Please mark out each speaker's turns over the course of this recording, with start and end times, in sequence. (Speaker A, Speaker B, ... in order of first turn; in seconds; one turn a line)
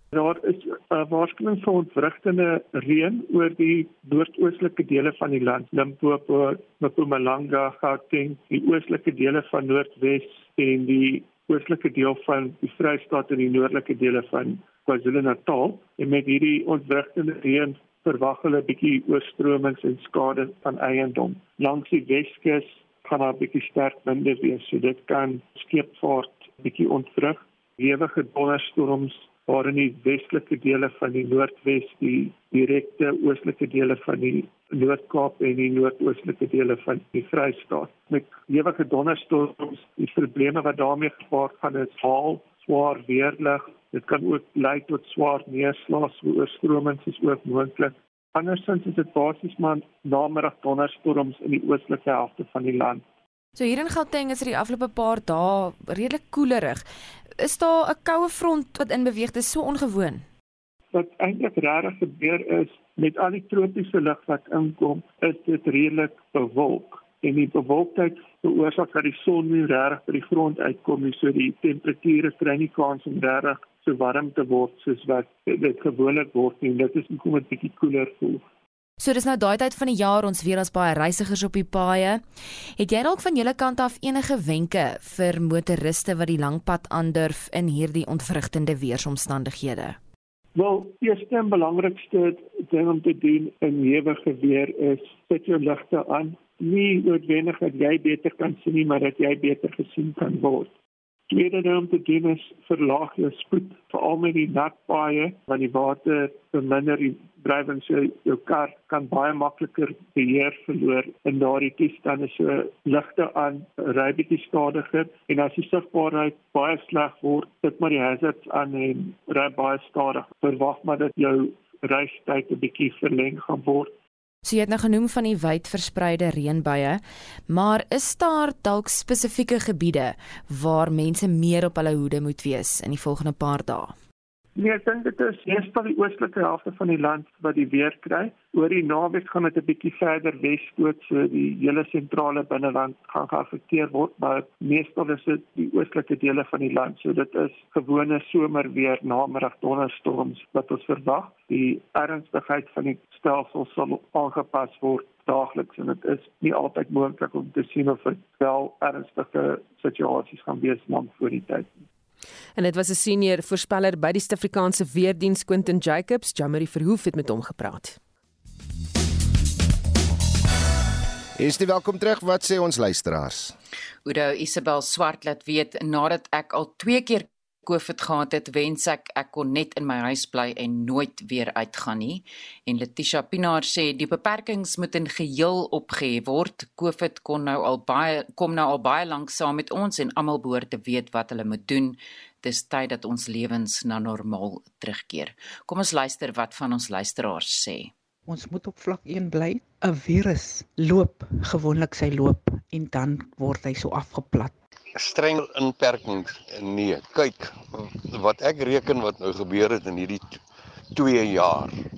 Speaker A: 0.1-53.0
Speaker B: 53.6-56.9
Speaker B: 57.4-60.3
Speaker A: 60.9-78.4
Speaker B: 79.0-82.2
Speaker B: 82.8-90.0
Speaker A: 90.5-100.7
Speaker A: 101.3-123.9
Speaker B: 124.4-134.0
Speaker A: 134.6-161.7
Speaker C: 162.6-168.0
Speaker D: 171.4-173.6
Speaker E: 174.1-197.9
Speaker F: 198.3-204.5
Speaker G: 204.9-210.4
Speaker G: 210.9-211.7